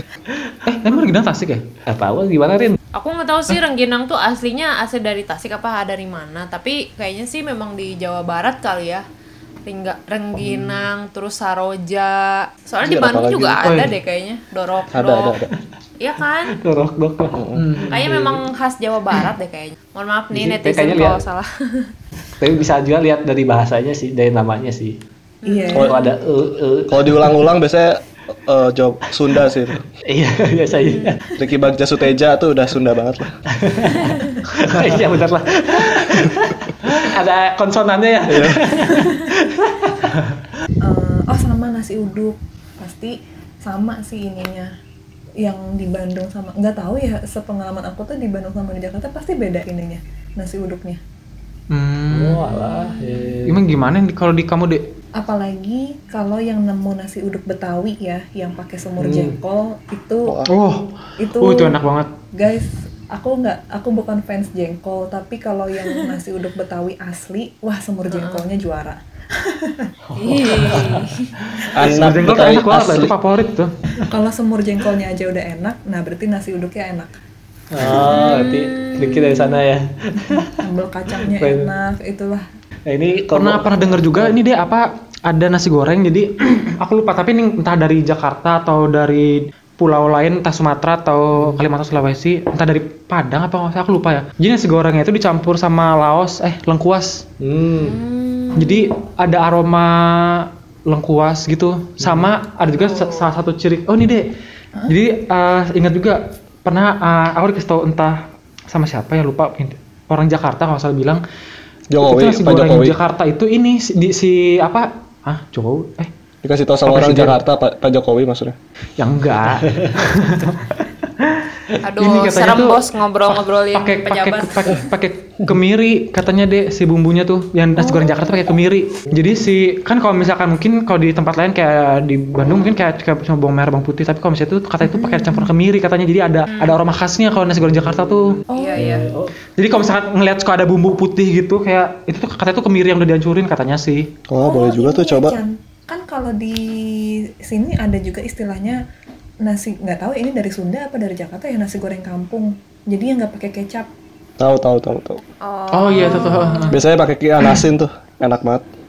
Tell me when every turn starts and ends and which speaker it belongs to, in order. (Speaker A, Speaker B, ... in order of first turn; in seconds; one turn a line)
Speaker A: 0.6-1.6
Speaker B: 1.9-2.8
Speaker C: 2.9-9.0
Speaker C: 9.7-15.4
Speaker D: 12.8-13.6
Speaker A: 13.6-13.9
Speaker D: 14.9-15.5
Speaker C: 16.0-16.6
Speaker B: 16.6-18.4
Speaker D: 17.3-17.6
Speaker C: 17.8-21.9
Speaker B: 20.3-21.2
Speaker B: 22.4-25.0
Speaker C: 25.4-26.1
Speaker E: 25.5-25.9
Speaker B: 25.7-27.4
Speaker D: 26.9-29.8
Speaker B: 30.0-31.2
Speaker C: 30.8-31.2
Speaker D: 31.4-33.4
Speaker B: 33.5-40.1
Speaker D: 38.3-38.6
Speaker E: 40.8-44.7
Speaker E: 45.4-51.0
Speaker A: 51.7-52.5
Speaker B: 52.1-53.6
Speaker C: 52.6-53.2
Speaker A: 53.5-54.8
Speaker E: 55.1-60.4
Speaker B: 59.0-59.4
Speaker D: 60.2-60.5
Speaker A: 60.5-62.1
Speaker E: 61.2-61.8
Speaker E: 62.3-69.9
Speaker C: 68.1-68.4
Speaker B: 70.1-71.7
Speaker C: 70.2-71.3
Speaker D: 71.7-73.1
Speaker A: 71.8-73.7
Speaker E: 74.1-77.1
Speaker B: 77.7-80.6
Speaker C: 78.0-79.6
Speaker E: 80.4-82.4
Speaker B: 81.2-81.7
Speaker B: 82.8-84.3
Speaker A: 83.3-97.2
Speaker B: 91.3-91.6
Speaker B: 97.4-98.0
Speaker C: 97.8-98.9
Speaker A: 98.5-104.3
Speaker B: 102.0-102.3
Speaker C: 102.7-103.3
Speaker A: 104.9-111.2
Speaker D: 111.9-113.0
Speaker A: 112.0-116.1
Speaker D: 116.4-118.5
Speaker A: 116.8-117.4
Speaker A: 119.0-138.4
Speaker B: 119.7-120.0
Speaker C: 121.8-124.8
Speaker C: 127.8-128.2
Speaker E: 134.8-135.5
Speaker C: 136.5-136.8
Speaker B: 138.0-139.3
Speaker C: 138.5-139.1
Speaker E: 138.5-139.0
Speaker A: 139.6-144.1
Speaker D: 144.3-145.4
Speaker E: 144.4-148.8
Speaker E: 149.4-153.9
Speaker D: 154.4-155.2
Speaker C: 155.4-156.8
Speaker A: 155.7-156.8
Speaker D: 156.7-158.6